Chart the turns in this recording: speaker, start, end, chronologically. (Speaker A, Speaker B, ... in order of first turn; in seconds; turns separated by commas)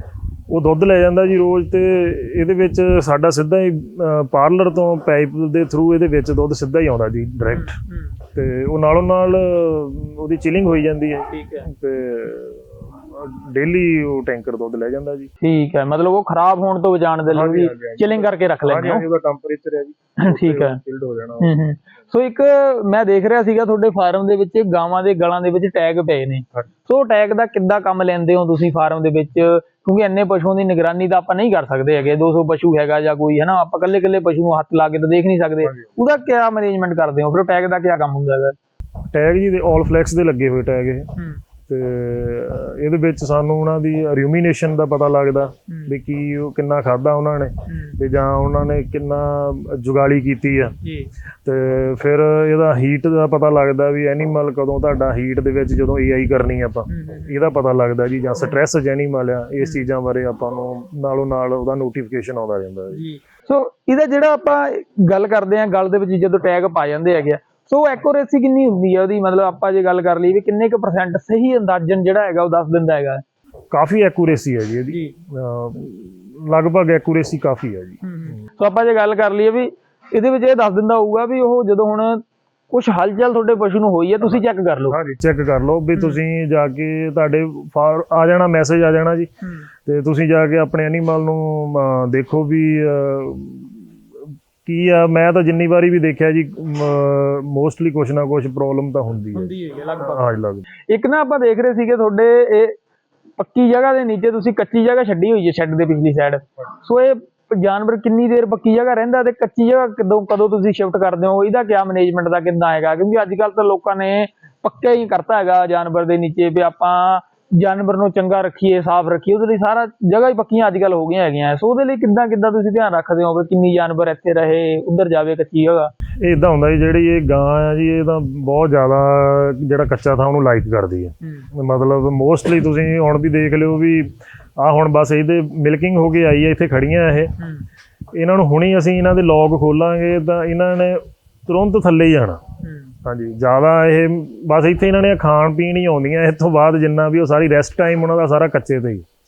Speaker A: 0.5-7.8, Speaker B: 7.5-8.2, Speaker A: 8.3-15.3, Speaker B: 11.3-11.7, Speaker B: 15.4-19.1, Speaker A: 17.3-21.6, Speaker B: 20.2-20.8, Speaker B: 21.4-38.6, Speaker A: 39.1-41.1, Speaker A: 41.7-50.8, Speaker B: 45.7-46.0, Speaker B: 47.7-48.0, Speaker B: 50.8-51.1, Speaker A: 51.4-63.0, Speaker B: 56.9-57.4, Speaker B: 62.9-73.2, Speaker A: 73.7-78.0, Speaker B: 74.9-75.2, Speaker B: 78.0-85.0, Speaker A: 84.2-89.3, Speaker B: 86.0-86.2, Speaker B: 89.4-89.7, Speaker A: 89.8-100.7, Speaker B: 99.3-100.2, Speaker B: 100.8-102.8, Speaker B: 103.4-125.9, Speaker A: 126.2-137.3, Speaker B: 131.2-131.5, Speaker B: 137.4-137.7, Speaker A: 138.1-142.4, Speaker B: 142.6-142.9, Speaker A: 143.0-149.1